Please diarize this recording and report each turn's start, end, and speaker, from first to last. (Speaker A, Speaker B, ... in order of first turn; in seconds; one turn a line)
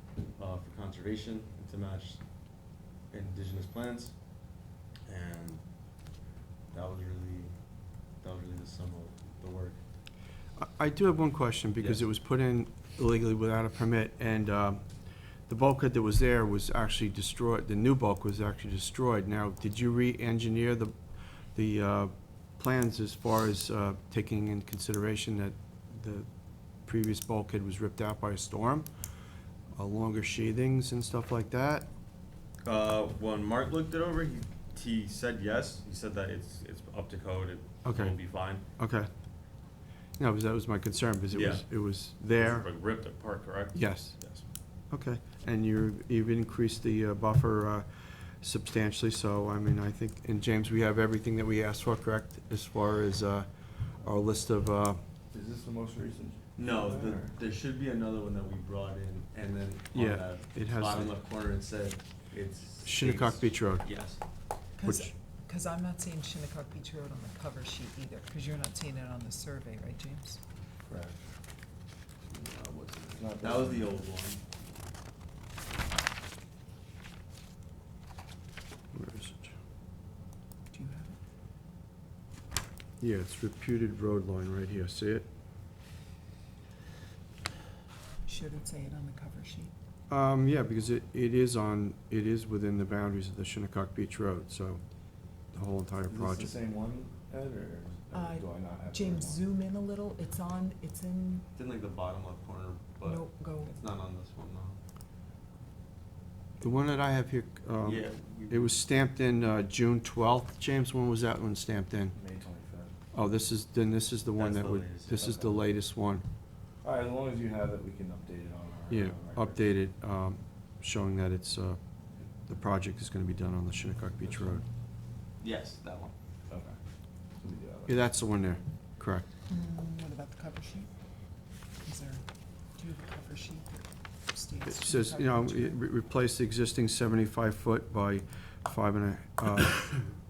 Speaker A: 0.3-2.2
Speaker A: 3.1-4.1
Speaker A: 5.1-5.6
Speaker A: 6.7-7.5
Speaker A: 8.2-9.8
Speaker B: 10.6-14.8
Speaker B: 15.5-20.9
Speaker B: 21.5-26.3
Speaker B: 26.8-28.9
Speaker B: 29.7-31.9
Speaker A: 32.6-38.6
Speaker B: 37.8-39.1
Speaker B: 40.2-42.7
Speaker A: 41.3-41.6
Speaker A: 42.3-44.4
Speaker B: 43.7-44.2
Speaker B: 44.9-47.9
Speaker B: 48.4-53.5
Speaker B: 54.0-55.0
Speaker C: 55.3-57.4
Speaker A: 56.6-64.2
Speaker B: 59.9-61.1
Speaker B: 62.8-63.9
Speaker D: 64.8-70.4
Speaker B: 64.8-65.1
Speaker C: 70.8-71.2
Speaker A: 72.2-74.4
Speaker C: 73.2-74.0
Speaker B: 78.9-79.5
Speaker D: 80.7-81.2
Speaker B: 83.0-85.3
Speaker D: 88.2-89.7
Speaker B: 90.1-94.8
Speaker B: 95.5-96.5
Speaker C: 96.1-99.4
Speaker D: 98.1-101.5
Speaker A: 101.5-104.8
Speaker D: 103.0-103.8
Speaker B: 106.6-112.2
Speaker A: 107.8-108.7
Speaker C: 112.1-112.9
Speaker B: 113.1-116.2
Speaker A: 114.3-115.4
Speaker C: 115.2-115.5
Speaker C: 116.8-119.7
Speaker B: 118.9-121.8
Speaker B: 122.5-124.6
Speaker C: 124.2-124.6
Speaker A: 125.4-126.1
Speaker C: 126.5-126.8
Speaker C: 127.3-128.1
Speaker B: 127.9-129.3
Speaker D: 129.5-130.9
Speaker D: 131.8-135.8
Speaker B: 134.7-140.1